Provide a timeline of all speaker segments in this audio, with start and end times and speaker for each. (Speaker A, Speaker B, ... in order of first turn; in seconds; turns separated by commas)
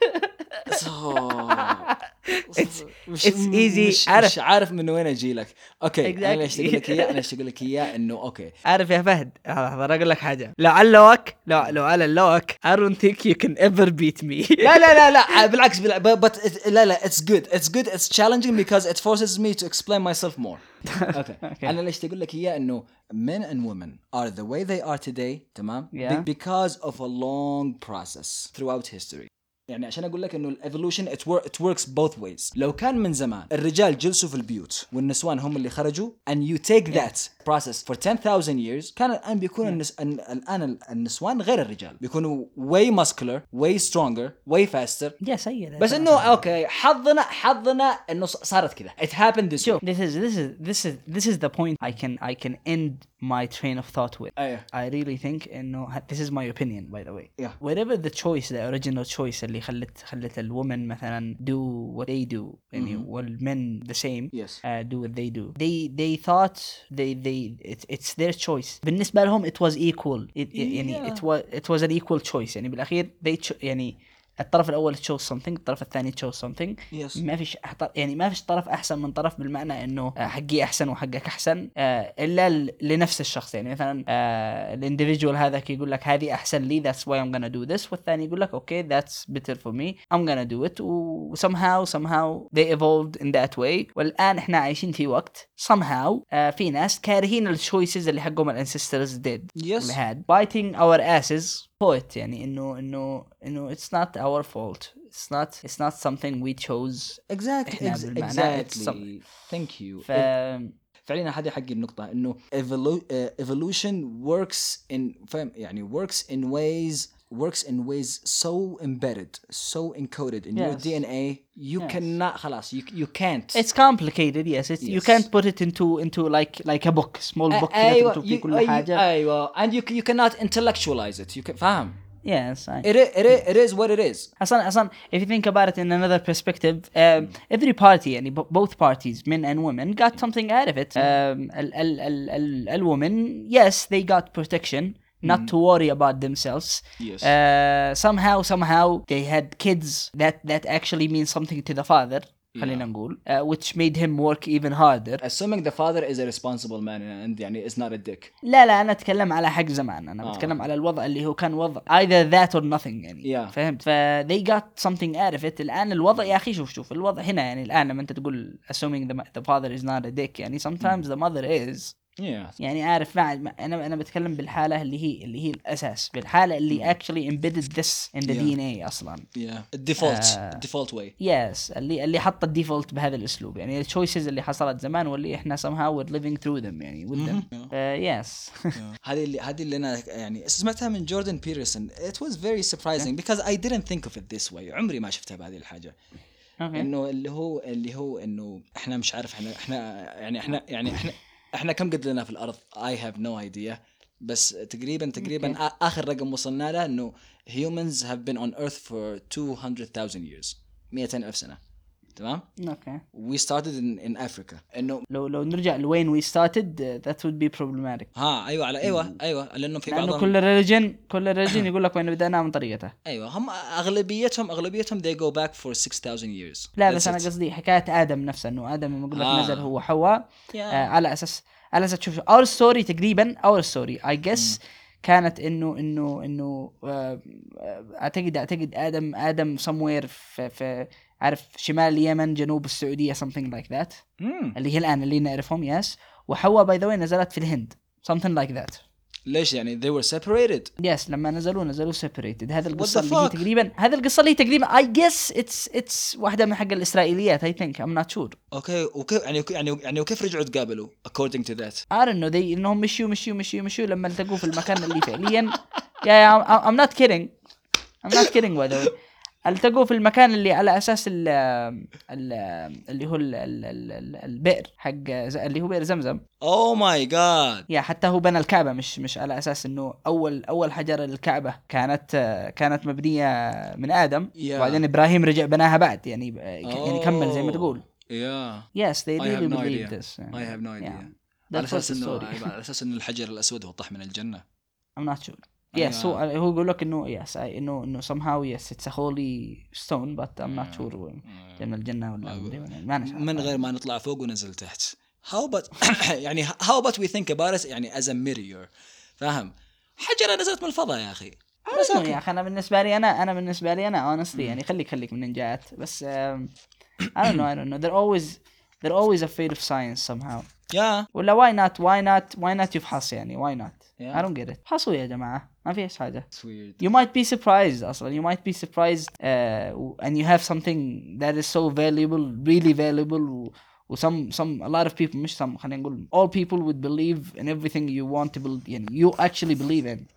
Speaker A: 0.2-0.7, Speaker B: 0.7-1.9, Speaker A: 1.5-4.3, Speaker B: 2.5-8.5, Speaker A: 6.0-7.2, Speaker A: 8.7-15.4, Speaker B: 14.6-45.2, Speaker A: 20.9-21.7, Speaker A: 25.9-26.3, Speaker A: 45.2-46.4, Speaker B: 45.8-49.8, Speaker A: 49.6-109.1, Speaker B: 54.4-54.7, Speaker B: 62.8-63.1, Speaker B: 64.3-64.6, Speaker B: 70.5-71.2, Speaker B: 76.9-77.2, Speaker B: 99.6-100.0, Speaker B: 107.3-110.3, Speaker A: 110.1-110.7, Speaker B: 111.1-123.6, Speaker A: 120.5-121.0, Speaker A: 121.8-122.1, Speaker A: 123.5-129.0, Speaker B: 124.8-125.3, Speaker B: 127.5-132.0, Speaker A: 132.2-132.9, Speaker B: 132.8-134.3, Speaker A: 134.4-155.2, Speaker B: 145.2-145.5, Speaker B: 147.0-147.3, Speaker B: 152.5-152.8, Speaker B: 155.2-158.3, Speaker A: 158.4-171.9, Speaker B: 160.2-160.6, Speaker B: 163.2-163.6, Speaker B: 172.2-172.6, Speaker A: 172.6-179.3, Speaker B: 176.7-176.9, Speaker B: 178.3-178.6, Speaker B: 179.3-181.1, Speaker A: 180.0-180.6, Speaker A: 181.2-188.8, Speaker B: 187.2-187.7, Speaker B: 188.8-195.9, Speaker A: 196.6-196.9, Speaker B: 196.7-211.6, Speaker A: 205.2-205.6, Speaker B: 212.2-212.5, Speaker A: 212.6-213.0, Speaker B: 213.1-215.1, Speaker A: 215.1-218.1, Speaker B: 218.2-220.3, Speaker A: 218.8-219.1, Speaker A: 219.9-222.9, Speaker B: 223.1-227.3, Speaker A: 226.8-244.0, Speaker B: 229.1-229.7, Speaker B: 230.5-230.9, Speaker B: 234.3-234.6, Speaker B: 244.2-244.6, Speaker A: 244.6-248.8, Speaker B: 249.3-250.7, Speaker A: 250.8-258.4, Speaker B: 252.7-253.4, Speaker B: 258.5-261.8, Speaker A: 261.9-267.3, Speaker B: 264.5-265.6, Speaker A: 268.0-268.9, Speaker B: 268.1-268.9, Speaker A: 269.4-276.2, Speaker B: 276.4-277.7, Speaker A: 277.7-287.9, Speaker B: 284.4-284.8, Speaker B: 286.6-288.7, Speaker A: 288.8-292.5, Speaker B: 289.2-294.4, Speaker A: 295.0-303.6, Speaker B: 295.7-296.2, Speaker B: 300.5-301.6, Speaker B: 302.2-312.2, Speaker A: 311.7-316.5, Speaker B: 314.3-314.6, Speaker A: 317.1-320.5, Speaker B: 320.7-321.1, Speaker A: 321.1-326.3, Speaker B: 324.0-324.3, Speaker B: 326.3-326.8, Speaker A: 326.8-340.1